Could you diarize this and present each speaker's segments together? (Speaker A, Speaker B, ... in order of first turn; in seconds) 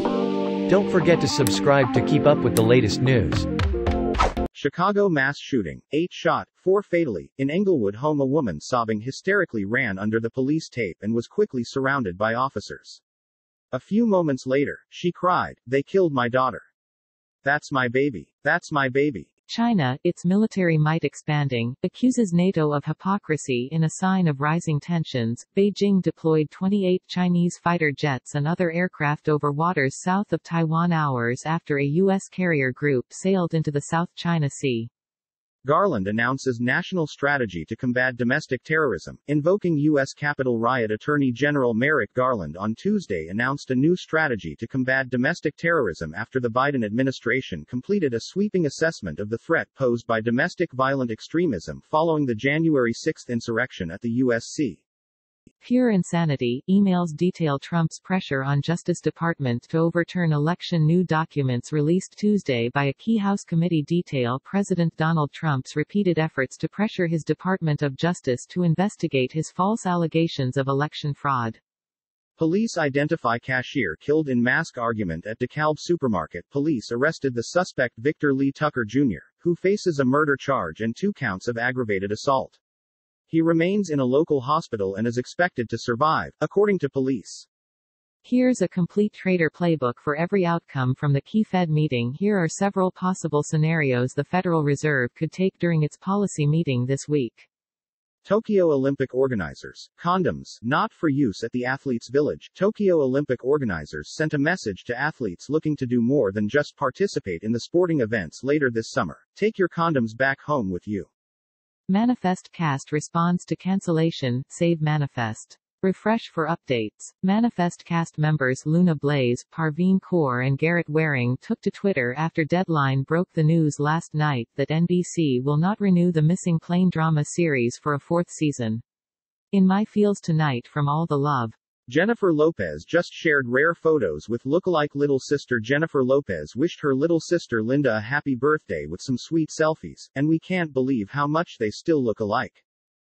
Speaker A: 0.7-3.5
Speaker B: 4.5-13.0, 13.7-16.7, 17.4-19.3, 35.6-54.8, 72.4-82.6, 83.3-87.5, 98.2-111.1, 131.9-142.6
Speaker C: 19.5-34.9, 55.6-71.6, 88.2-97.5, 111.9-128.8, 129.5-131.6